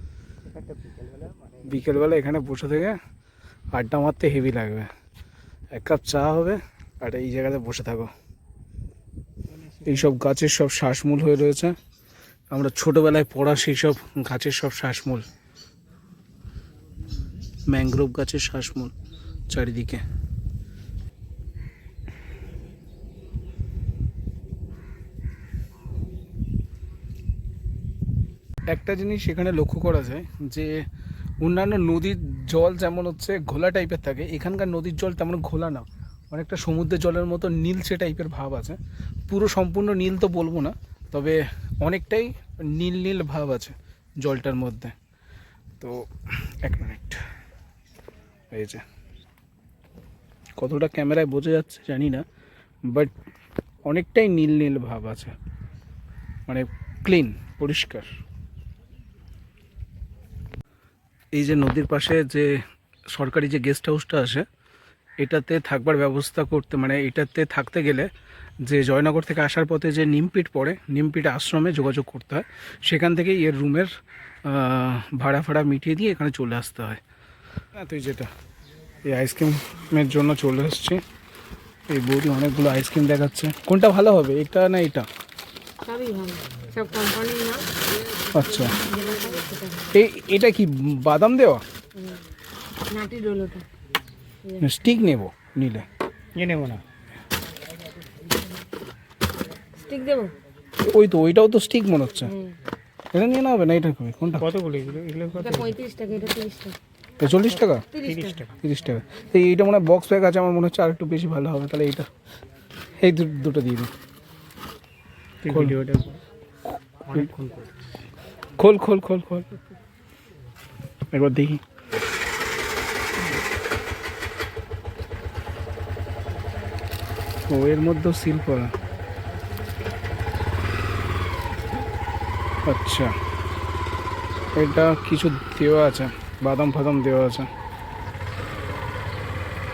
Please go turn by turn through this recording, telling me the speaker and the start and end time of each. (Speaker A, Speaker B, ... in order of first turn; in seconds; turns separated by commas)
Speaker A: 0.5-1.9, Speaker B: 1.6-3.0, Speaker B: 3.7-4.9, Speaker B: 5.7-8.1, Speaker A: 9.5-10.2, Speaker B: 9.9-11.8, Speaker B: 12.5-15.2, Speaker B: 17.7-18.9, Speaker B: 19.5-20.0, Speaker B: 28.7-30.8, Speaker B: 31.4-44.9, Speaker B: 45.8-47.2, Speaker B: 48.5-48.8, Speaker B: 50.6-52.2, Speaker B: 52.9-53.1, Speaker B: 53.8-55.3, Speaker B: 56.5-58.1, Speaker B: 61.3-64.4, Speaker B: 65.2-68.1, Speaker B: 68.6-73.9, Speaker B: 74.4-77.0, Speaker B: 77.7-78.3, Speaker B: 79.0-81.0, Speaker B: 81.9-85.0, Speaker C: 85.8-87.6, Speaker B: 88.3-88.7, Speaker C: 88.6-89.9, Speaker B: 89.9-91.6, Speaker C: 92.9-93.6, Speaker B: 94.6-95.8, Speaker A: 96.3-96.8, Speaker C: 99.8-100.3, Speaker B: 100.8-102.3, Speaker C: 102.2-102.5, Speaker B: 103.1-104.5, Speaker A: 104.3-105.8, Speaker C: 105.4-106.7, Speaker B: 107.2-107.8, Speaker C: 107.9-108.4, Speaker A: 107.9-108.5, Speaker B: 108.6-112.1, Speaker B: 113.0-113.9, Speaker A: 115.4-116.2, Speaker B: 115.5-115.8, Speaker A: 117.0-118.0, Speaker B: 118.6-119.6, Speaker B: 121.1-121.6, Speaker B: 127.5-128.7, Speaker B: 132.7-133.1, Speaker B: 134.6-137.5